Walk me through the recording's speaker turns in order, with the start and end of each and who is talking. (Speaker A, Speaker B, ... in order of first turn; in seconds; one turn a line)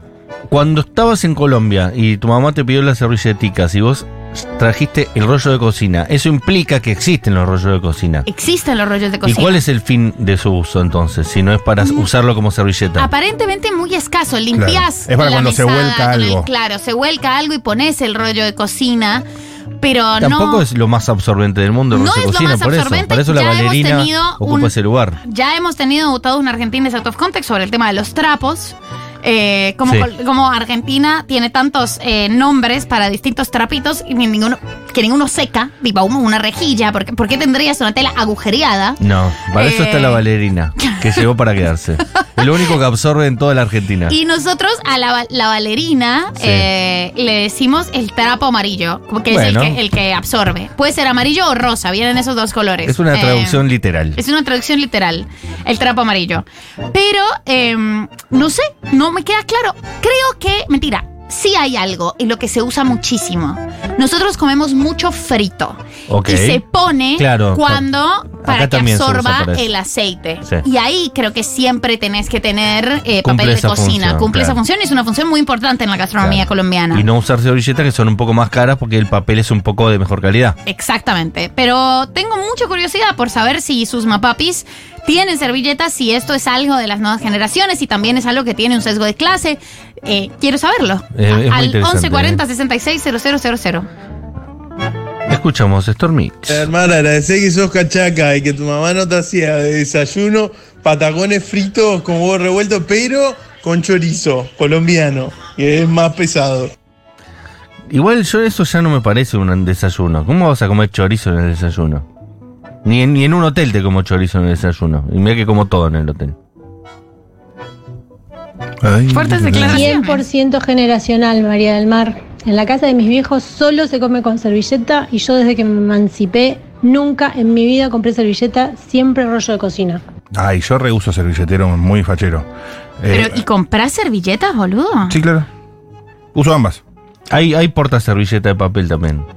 Speaker A: 0.5-8.3
Speaker B: 8.3-9.6
Speaker A: 9.2-13.1
Speaker B: 13.0-19.2
Speaker C: 14.6-16.5
Speaker B: 19.8-20.6
Speaker A: 20.2-25.2
Speaker B: 21.9-39.0
Speaker A: 39.0-44.1
Speaker B: 39.5-40.2
Speaker B: 44.1-53.6
Speaker A: 46.4-46.7
Speaker A: 49.3-49.8
Speaker A: 52.9-54.2
Speaker B: 54.1-77.0
Speaker A: 66.1-66.6
Speaker A: 67.2-67.9
Speaker A: 68.4-69.7
Speaker A: 73.2-74.6
Speaker A: 76.2-80.6
Speaker B: 80.7-93.9
Speaker A: 91.2-92.4
Speaker A: 95.3-96.6
Speaker D: 96.5-106.7
Speaker A: 107.9-112.0
Speaker A: 112.8-116.3
Speaker C: 118.8-119.9
Speaker B: 119.1-120.2
Speaker E: 119.6-130.0
Speaker C: 130.3-132.5
Speaker C: 133.0-133.4
Speaker B: 133.1-135.2
Speaker C: 135.1-135.5
Speaker C: 136.3-136.8
Speaker A: 137.3-139.3